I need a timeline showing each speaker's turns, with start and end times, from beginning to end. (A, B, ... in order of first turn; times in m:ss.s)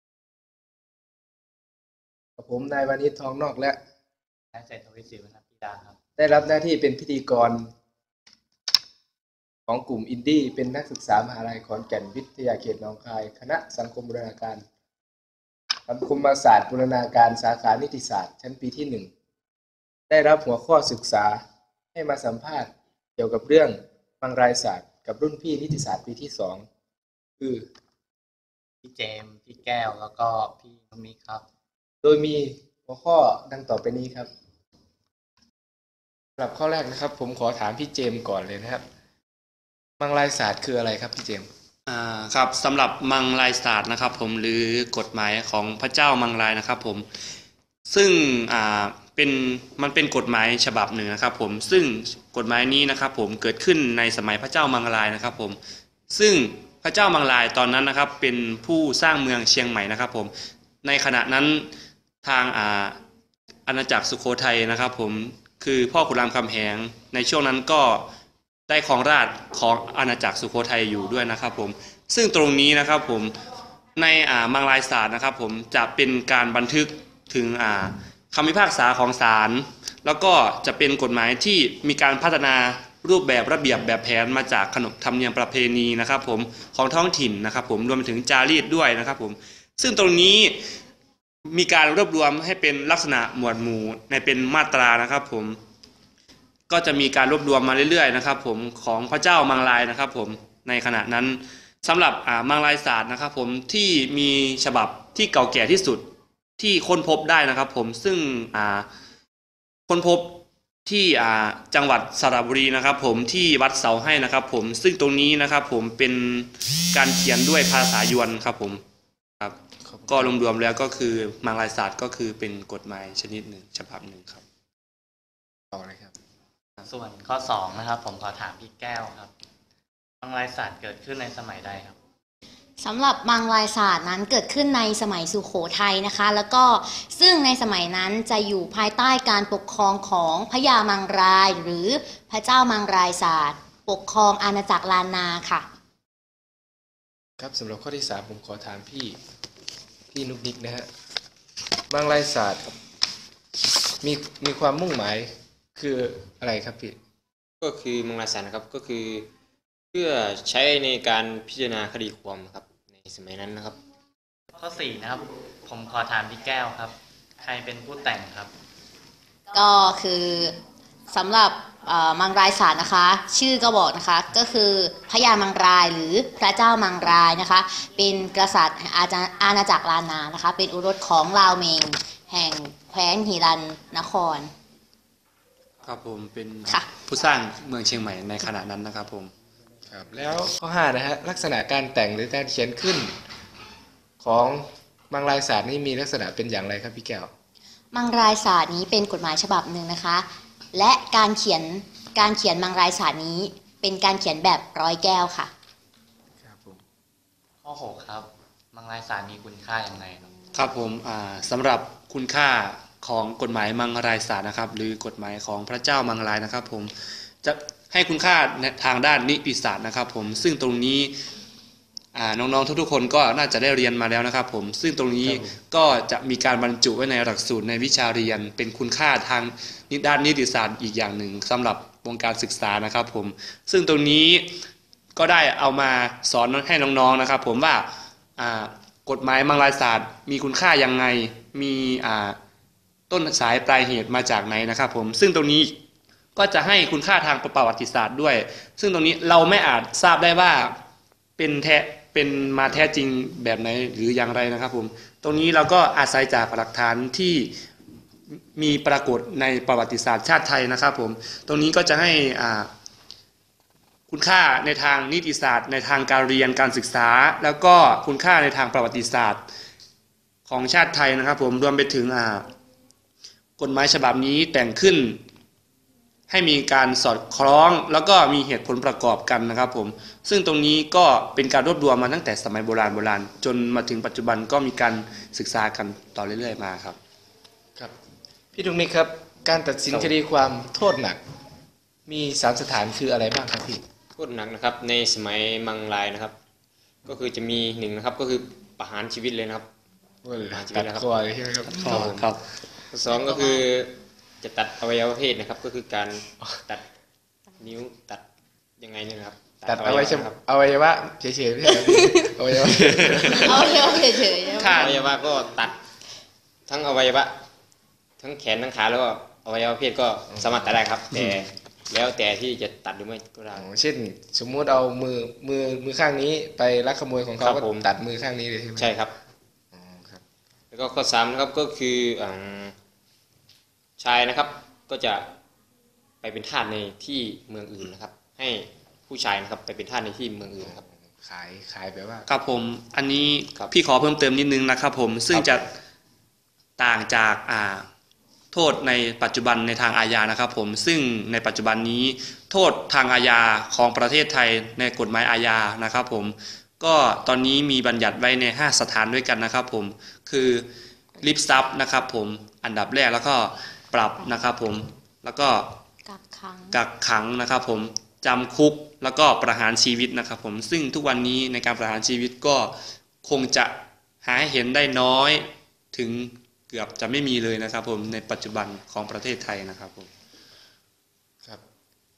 0:02.4-0:03.8 A
0:04.5-0:06.0 B
0:06.2-0:07.7 A
0:09.7-0:14.6 A
0:15.9-0:19.1 A
0:20.1-0:21.4 A
0:21.9-0:26.6 A
0:27.4-0:27.7 A
0:28.8-0:31.4 B
0:32.0-0:34.3 A
0:36.4-0:38.8 A
0:40.0-0:41.5 A
0:41.9-0:47.0 C
0:47.9-0:55.6 C
0:56.1-1:00.3 C
1:00.8-1:01.7 C
1:02.2-1:03.0 C
1:03.7-1:08.0 C
1:08.7-1:13.3 C
1:14.0-1:30.6 C
1:31.5-1:35.6 C
1:36.7-1:46.0 C
1:46.6-1:48.9 C
1:49.9-1:58.8 C
1:59.8-2:00.3 A
2:00.1-2:04.4 C
2:05.7-2:06.1 A
2:06.8-2:09.3 B
2:10.2-2:12.0 B
2:12.8-2:25.6 D
2:27.4-2:29.2 A
2:30.1-2:30.9 A
2:31.9-2:32.7 A
2:34.0-2:36.9 A
2:37.6-2:39.3 E
2:39.9-2:43.8 E
2:44.6-2:48.5 B
2:49.5-2:50.6 D
2:51.1-3:04.5 D
3:05.8-3:09.3 C
3:09.9-3:13.1 A
3:14.2-3:17.3 A
3:17.9-3:25.5 D
3:26.4-3:26.8 A
3:27.6-3:30.3 B
3:30.5-3:36.9 C
3:37.4-3:41.1 C
3:42.1-3:54.4 C
3:45.2-3:45.5 A
3:55.2-3:57.8 C
3:58.4-4:02.4 C
4:03.1-4:05.7 C
4:06.4-4:10.7 C
4:11.4-4:17.5 C
4:18.3-4:22.7 C
4:24.1-4:29.4 C
4:30.4-4:32.5 C
4:33.6-4:35.2 C
4:36.3-4:47.0 C
4:48.5-4:51.2 A
4:52.1-4:53.8 A
4:54.2-4:56.3 E
4:57.0-4:59.7 E
5:00.2-5:02.0 A
5:00.5-5:01.1 E
5:01.7-5:02.3 E
5:01.8-5:02.4 C
5:02.9-5:06.8 E
5:07.6-5:08.2 E
5:08.8-5:10.4 E
5:09.6-5:13.6 A
5:12.7-5:13.5 C
5:13.3-5:14.8 D
5:14.6-5:15.0 C
5:14.7-5:15.8 E
5:16.7-5:17.3 E
5:18.2-5:23.6 E
5:20.4-5:20.7 A
5:23.5-5:28.9 A
5:27.4-5:27.8 E
5:28.8-5:29.1 E
5:29.7-5:30.2 A
5:30.7-5:32.7 E
5:34.0-5:35.3 E
5:36.2-5:40.8 E
5:40.6-5:42.3 A
5:42.3-5:45.6 C
5:46.8-5:47.8 C
5:48.5-6:00.7 C
6:01.2-6:05.7 C
6:06.0-6:06.8 D
6:06.7-6:12.7 C
6:13.2-6:20.1 C